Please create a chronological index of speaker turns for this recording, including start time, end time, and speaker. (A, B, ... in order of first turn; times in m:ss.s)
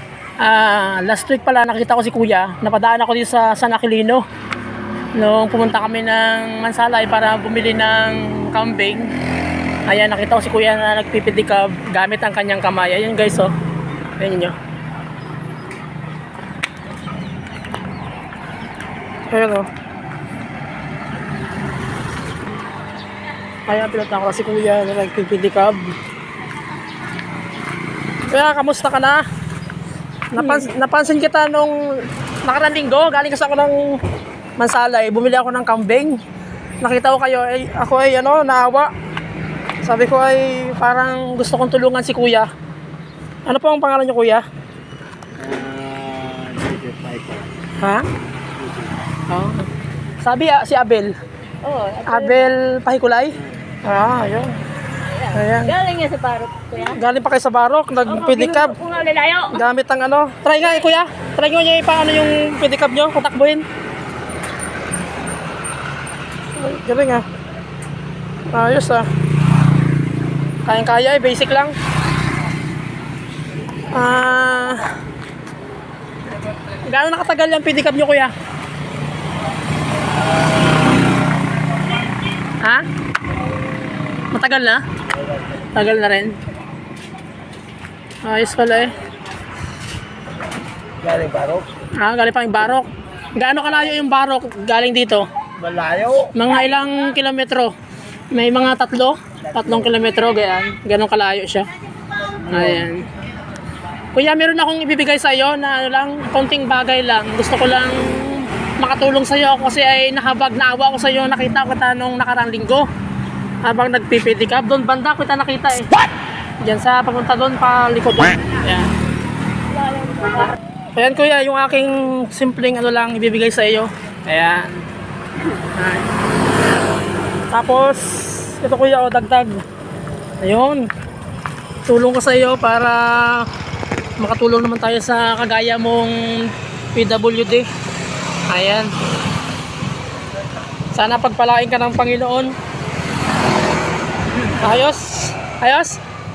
0:00.4-0:04.2 A
0:05.2-0:09.1 A
0:09.9-0:13.5 A
0:14.2-0:14.6 A
0:19.3-0:19.7 A
0:23.7-0:26.0 A
0:28.3-0:29.2 A
0:30.3-0:34.0 A
0:34.6-0:36.2 A
0:36.8-0:38.9 A
0:39.8-0:42.5 A
0:43.5-0:44.5 A
0:45.4-0:47.5 B
0:47.8-0:48.1 A
0:48.6-0:48.9 B
0:49.3-0:49.7 A
0:50.2-0:51.2 A
0:51.6-0:52.5 C
0:52.1-0:54.6 A
0:55.1-0:57.0 C
0:55.3-0:55.8 A
0:56.8-0:58.8 A
0:58.1-0:59.6 C
0:59.5-1:03.6 A
1:06.6-1:07.3 A
1:08.5-1:09.1 A
1:10.7-1:11.8 A
1:13.9-1:14.9 A
1:16.8-1:18.3 A
1:22.6-1:22.9 A
1:24.3-1:24.8 A
1:25.6-1:26.4 A
1:28.2-1:29.0 A
1:31.0-1:31.7 B
1:32.0-1:35.3 A
1:35.6-1:36.3 B
1:36.3-1:37.7 A
1:38.3-1:41.7 A
1:42.4-1:43.1 A
1:44.1-1:52.9 A
1:53.6-1:55.9 A
1:56.6-1:58.9 A
1:59.8-2:00.6 C
2:00.9-2:04.8 A
2:05.5-2:06.1 A
2:07.5-2:09.6 A
2:10.4-2:10.9 A
2:11.9-2:13.5 A
2:14.2-2:17.7 A
2:18.5-2:18.9 A
2:20.9-2:22.5 A
2:24.4-2:26.0 A